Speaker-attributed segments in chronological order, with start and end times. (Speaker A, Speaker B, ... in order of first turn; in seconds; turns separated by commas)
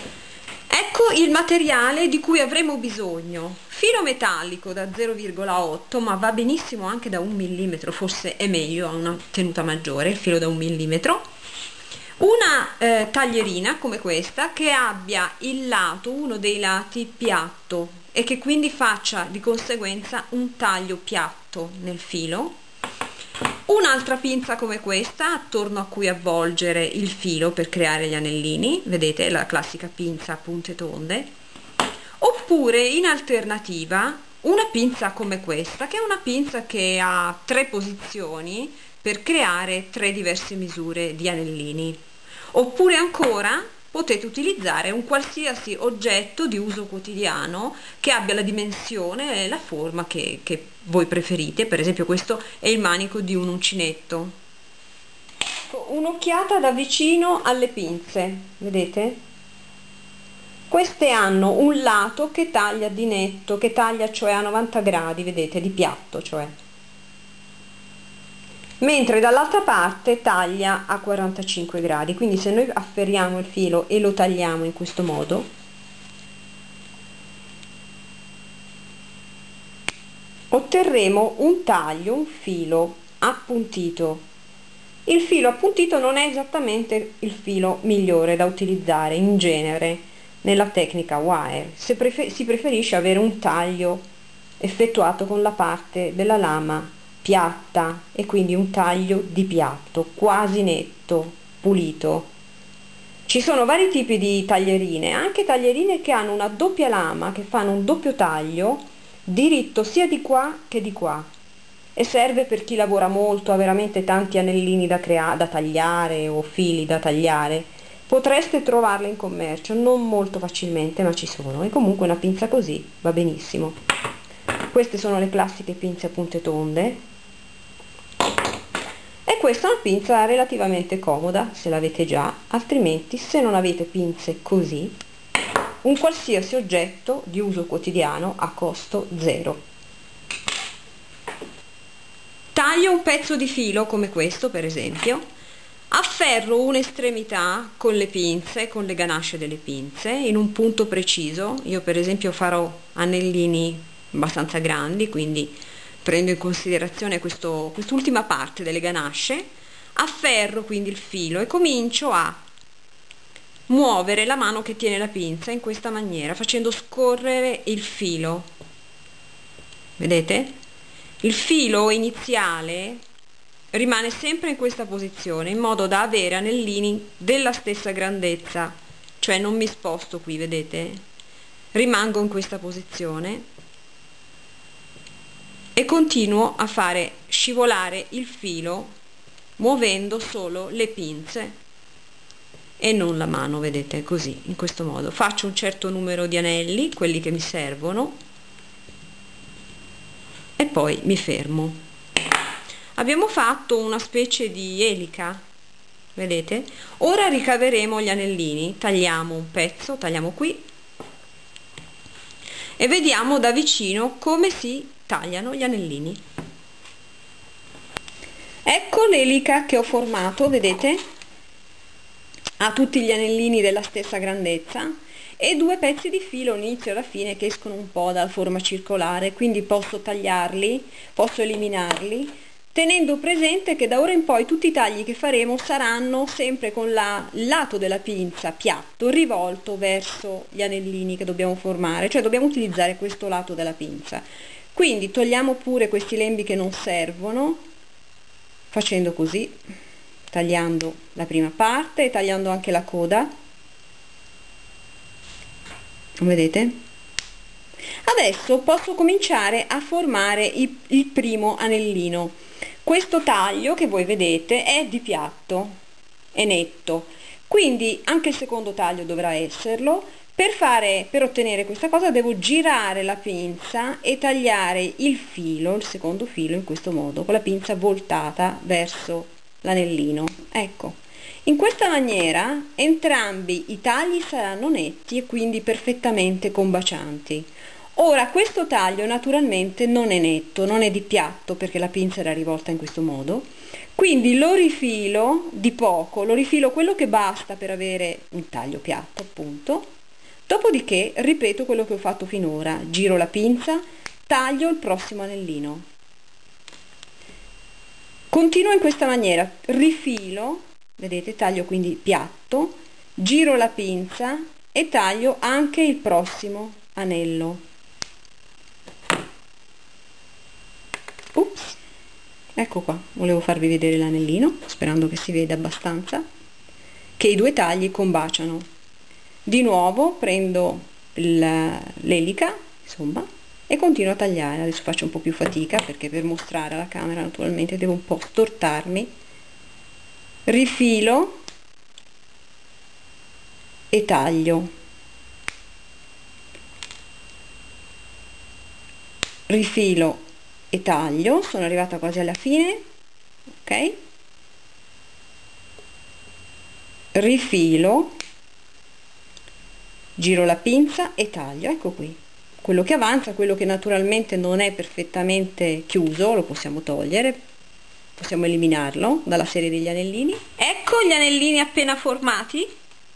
Speaker A: 0.7-11.2, Speaker A: 12.2-22.6, Speaker A: 23.7-31.3, Speaker A: 32.2-42.0, Speaker A: 42.5-54.3, Speaker A: 55.7-59.2, Speaker A: 60.7-66.5, Speaker A: 68.8-75.5, Speaker A: 80.5-84.2, Speaker A: 85.0-94.0, Speaker A: 94.6-102.3, Speaker A: 103.3-111.3, Speaker A: 112.0-123.8, Speaker A: 124.7-127.0, Speaker A: 129.2-134.9, Speaker A: 135.8-139.6, Speaker A: 142.5-145.2, Speaker A: 145.9-162.4, Speaker A: 163.7-168.5, Speaker A: 170.0-170.5, Speaker A: 171.2-173.0, Speaker A: 173.7-181.0, Speaker A: 181.7-183.4, Speaker A: 185.7-188.9, Speaker A: 189.6-191.6, Speaker A: 192.8-198.2, Speaker A: 200.6-201.8, Speaker A: 202.9-205.4, Speaker A: 206.1-210.6, Speaker A: 212.8-216.2, Speaker A: 218.6-221.0, Speaker A: 222.6-247.6, Speaker A: 248.7-249.6, Speaker A: 250.3-253.3, Speaker A: 256.2-256.8, Speaker A: 258.0-265.7, Speaker A: 266.3-299.9, Speaker A: 300.5-305.9, Speaker A: 308.3-317.6, Speaker A: 321.3-321.8, Speaker A: 322.6-326.2, Speaker A: 327.2-328.6, Speaker A: 329.4-339.1, Speaker A: 340.4-341.4, Speaker A: 343.9-344.7, Speaker A: 349.5-352.8, Speaker A: 353.6-354.0, Speaker A: 357.1-358.1, Speaker A: 360.1-367.4, Speaker A: 368.1-372.7